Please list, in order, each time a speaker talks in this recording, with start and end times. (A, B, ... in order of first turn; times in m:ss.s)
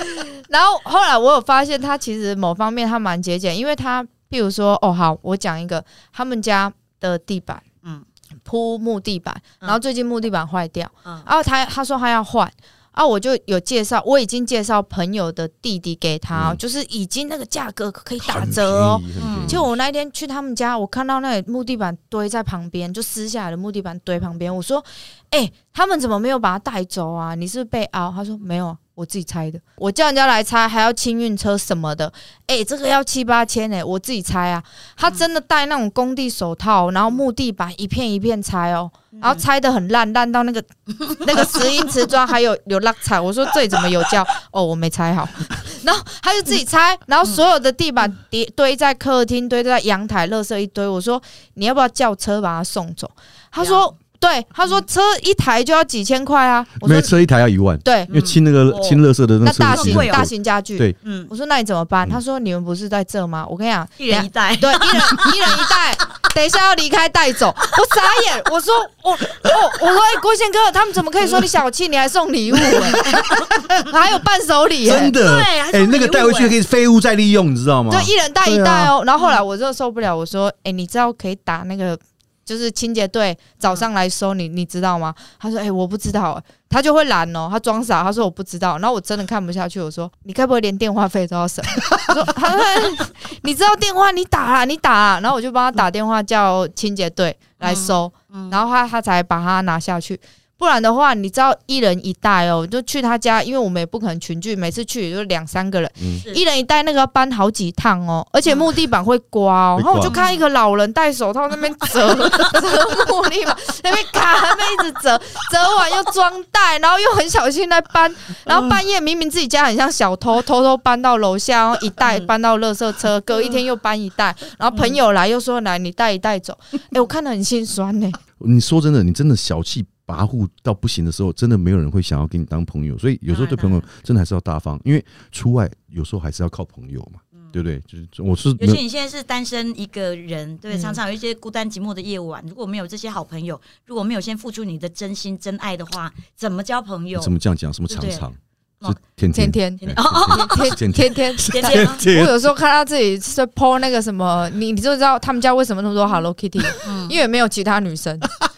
0:00.2-0:07.6 A
0:08.4-0:57.1 A
0:16.3-0:16.6 B
0:18.2-0:19.7 B
0:19.2-0:19.6 C
0:39.2-0:39.4 C
0:56.8-1:01.0 B
0:57.8-0:58.2 A
0:58.1-0:59.0 C
0:59.4-1:13.1 A
0:59.6-1:00.3 C
1:01.0-1:01.3 C
1:04.0-1:05.7 C
1:12.8-1:13.9 B
1:12.9-1:13.5 C
1:13.8-1:15.2 A
1:14.8-1:18.9 B
1:15.1-1:16.6 C
1:17.9-2:08.2 A
1:37.6-1:38.6 C
1:46.0-1:46.2 B
1:49.8-1:50.2 B
1:50.0-1:50.4 C
2:02.0-2:02.3 C
2:04.7-2:05.0 C
2:08.4-2:18.8 B
2:13.3-2:13.8 C
2:18.6-2:27.3 C
2:20.7-2:21.0 A
2:27.2-2:32.5 B
2:27.9-2:28.2 C
2:29.3-2:38.3 A
2:29.8-2:30.8 C
2:31.4-2:32.0 C
2:36.8-2:37.2 C